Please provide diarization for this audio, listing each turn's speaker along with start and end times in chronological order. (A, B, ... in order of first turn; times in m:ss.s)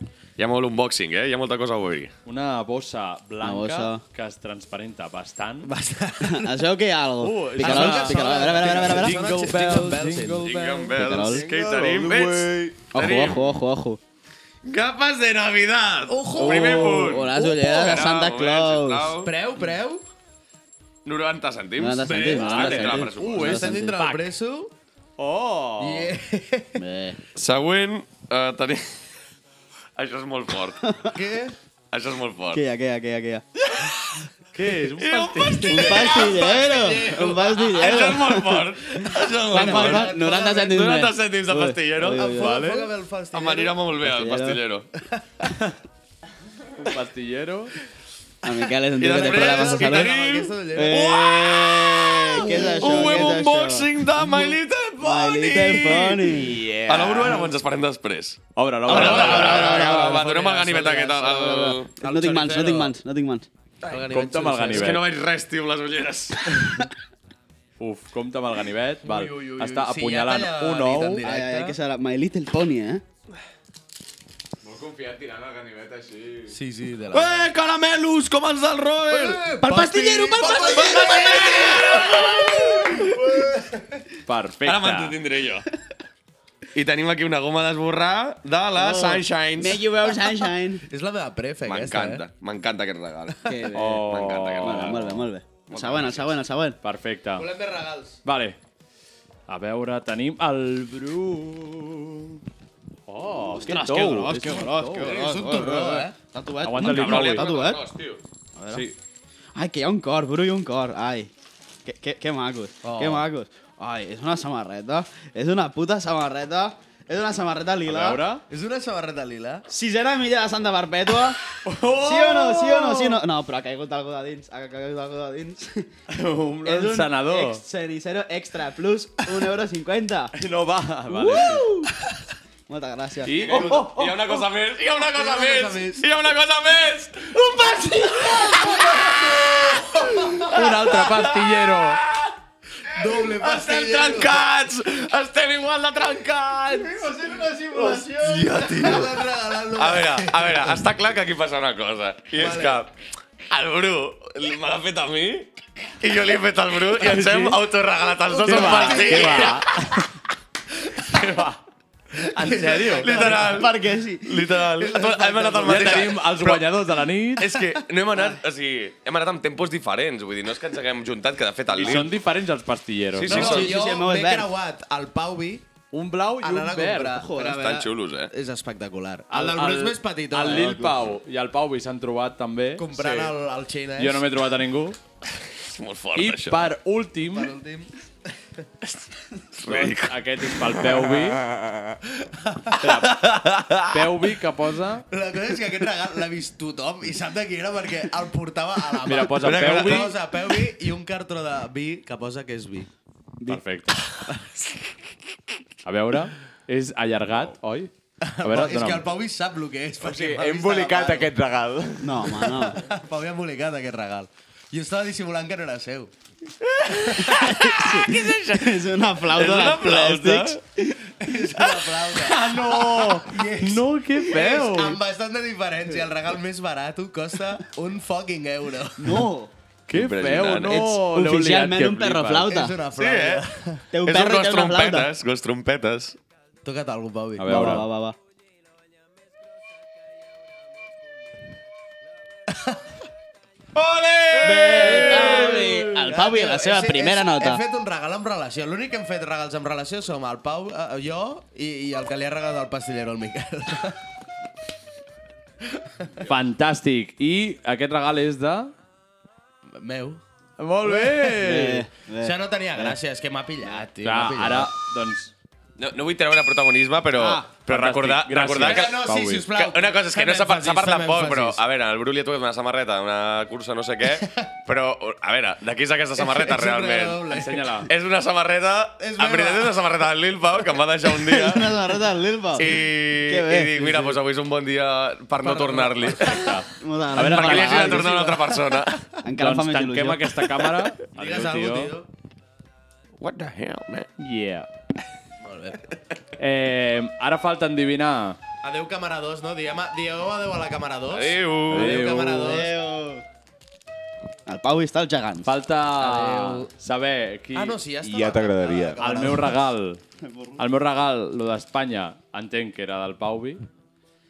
0:00.4-0:02.1 A
0:02.2-0:05.7 B
0:03.4-0:04.0 C
0:05.6-0:06.7 D
0:06.2-0:09.2 C
0:07.2-0:10.9 B
0:07.6-0:10.6 D
0:10.4-0:13.6 A
0:10.9-0:11.4 C
0:11.2-0:12.8 E
0:12.9-0:14.0 C
0:14.6-0:19.3 A
0:16.1-0:17.2 D
0:16.4-0:19.2 C
0:19.2-0:20.1 D
0:21.0-0:23.6 A
0:21.8-0:24.0 C
0:22.3-0:24.3 B
0:23.2-0:24.7 D
0:25.2-0:26.1 B
0:25.8-0:26.8 D
0:26.8-0:27.2 C
0:27.4-0:29.0 A
0:30.0-0:30.8 A
0:31.1-0:31.6 D
0:31.9-0:32.6 A
0:32.5-0:33.4 C
0:34.5-0:36.1 B
0:34.9-0:36.5 A
0:35.7-0:42.7 C
0:36.0-0:38.2 D
0:37.5-0:42.5 A
0:39.5-0:40.8 D
0:42.0-0:43.8 D
0:42.5-0:42.8 B
0:43.3-0:44.9 A
0:44.0-0:44.6 C
0:45.0-0:45.5 D
0:46.8-0:47.8 B
0:48.4-0:50.2 C
0:49.0-1:01.9 A
0:49.0-0:51.1 D
0:50.7-0:56.7 C
0:52.3-0:53.3 D
0:56.5-0:57.4 B
0:58.5-0:59.8 B
0:58.9-1:02.9 D
0:58.9-1:00.2 C
1:01.2-1:03.5 C
1:03.8-1:05.0 D
1:04.1-1:05.1 B
1:04.7-1:06.7 A
1:06.5-1:06.8 B
1:07.8-1:11.2 B
1:09.0-1:11.8 D
1:11.2-1:13.0 C
1:14.6-1:16.5 E
1:16.5-1:17.5 D
1:17.1-1:19.4 A
1:19.1-1:24.0 D
1:19.5-1:21.7 C
1:20.4-1:23.1 A
1:24.2-1:25.1 B
1:24.6-1:25.7 A
1:26.7-1:29.8 A
1:28.7-1:30.8 C
1:30.9-1:32.2 D
1:31.6-1:35.1 A
1:33.3-1:33.6 D
1:33.4-1:34.0 C
1:33.7-1:35.2 B
1:34.6-1:36.8 C
1:35.7-1:36.4 A
1:36.8-1:37.5 B
1:37.3-1:38.2 D
1:38.2-1:38.6 B
1:39.5-1:42.3 B
1:43.1-1:45.2 B
1:43.4-1:47.8 C
1:44.9-1:46.1 D
1:46.6-1:47.5 B
1:46.8-1:48.2 A
1:48.6-1:48.9 C
1:48.7-1:49.0 B
1:49.5-1:51.3 C
1:51.8-1:58.2 C
1:52.8-1:53.3 D
1:57.8-1:58.4 B
1:58.5-1:59.6 D
1:59.7-2:05.9 C
2:01.6-2:03.2 B
2:06.1-2:07.6 B
2:06.6-2:10.3 C
2:10.3-2:11.7 B
2:11.1-2:11.9 C
2:12.7-2:13.7 C
2:13.2-2:14.1 B
2:13.3-2:13.9 D
2:13.4-2:22.3 A
2:14.8-2:16.1 D
2:18.5-2:20.7 D
2:20.5-2:22.0 B
2:22.9-2:24.4 D
2:23.1-2:29.2 A
2:26.9-2:28.5 E
2:27.8-2:30.8 D
2:29.8-2:32.9 A
2:32.3-2:32.8 D
2:33.5-2:35.5 A
2:36.0-2:39.6 A
2:37.0-2:37.6 B
2:38.3-2:39.6 D
2:38.4-2:40.1 B
2:41.1-2:41.6 B
2:42.1-2:43.7 D
2:42.3-2:43.1 B
2:43.0-2:46.6 A
2:43.1-2:44.3 C
2:44.5-2:46.3 D
2:45.6-2:47.4 B
2:47.4-2:52.1 A
2:47.4-2:47.8 D
2:51.8-2:53.6 B
2:53.1-2:53.8 A
2:53.2-2:55.7 D
2:53.3-2:54.5 C
2:55.9-2:57.2 B
2:56.4-3:01.0 D
2:57.2-2:57.8 C
2:57.6-2:58.3 A
2:59.3-3:03.3 B
3:02.8-3:04.2 D
3:04.0-3:05.0 B
3:05.5-3:06.7 A
3:06.1-3:07.5 B
3:07.3-3:08.6 D
3:08.8-3:10.9 A
3:09.6-3:11.4 B
3:11.6-3:11.9 E
3:12.1-3:13.1 D
3:12.8-3:15.0 B
3:13.1-3:13.8 A
3:15.1-3:22.9 D
3:19.1-3:20.1 B
3:19.4-3:20.2 A
3:23.5-3:24.0 B
3:25.8-3:27.9 B
3:28.2-3:31.3 D
3:28.4-3:29.0 B
3:30.0-3:32.3 E
3:32.0-3:32.8 C
3:32.3-3:36.1 D
3:36.6-3:40.6 A
3:37.1-3:41.0 C
3:41.1-3:49.3 D
3:41.6-3:42.0 A
3:42.2-3:45.0 B
3:49.0-3:49.5 C
3:49.9-3:52.5 B
3:49.9-3:50.8 A
3:50.7-3:52.8 C
3:52.4-3:53.8 D
3:52.9-3:56.2 A
3:53.9-3:55.1 C
3:56.6-3:57.8 D
3:57.4-3:57.8 B
3:57.5-3:58.2 C
4:02.5-4:02.8 D
4:03.7-4:05.7 A
4:04.4-4:07.6 C
4:04.4-4:14.0 D
4:15.7-4:16.1 D
4:16.2-4:18.7 B
4:19.7-4:20.2 D
4:20.6-4:21.8 B
4:20.8-4:21.4 D
4:21.4-4:23.0 C
4:22.2-4:24.7 D
4:24.0-4:25.3 B
4:25.8-4:37.2 A
4:27.1-4:27.5 C
4:27.7-4:29.4 B
4:28.6-4:31.6 D
4:34.1-4:34.4 D
4:36.2-4:37.7 D
4:37.3-4:37.9 B
4:37.9-4:42.0 A
4:39.0-4:39.8 D
4:41.1-4:44.2 C
4:42.5-4:46.5 A
4:45.4-4:46.6 D
4:46.2-4:48.0 B
4:46.8-4:48.5 C
4:47.1-4:49.1 A
4:48.5-4:49.0 D
4:49.2-4:50.4 C
4:49.4-4:51.9 B
4:51.1-4:52.1 D
4:53.2-4:54.1 A
4:54.2-4:54.7 B
4:55.4-4:55.9 D
4:56.4-4:58.4 B
4:58.6-5:02.7 D
5:01.1-5:01.9 A
5:01.7-5:02.6 B
5:02.4-5:03.2 C
5:04.5-5:05.5 C
5:05.4-5:07.8 B
5:06.0-5:06.7 D
5:07.5-5:09.4 D
5:08.0-5:09.3 E
5:09.0-5:10.0 B
5:10.2-5:10.6 C
5:10.6-5:13.6 B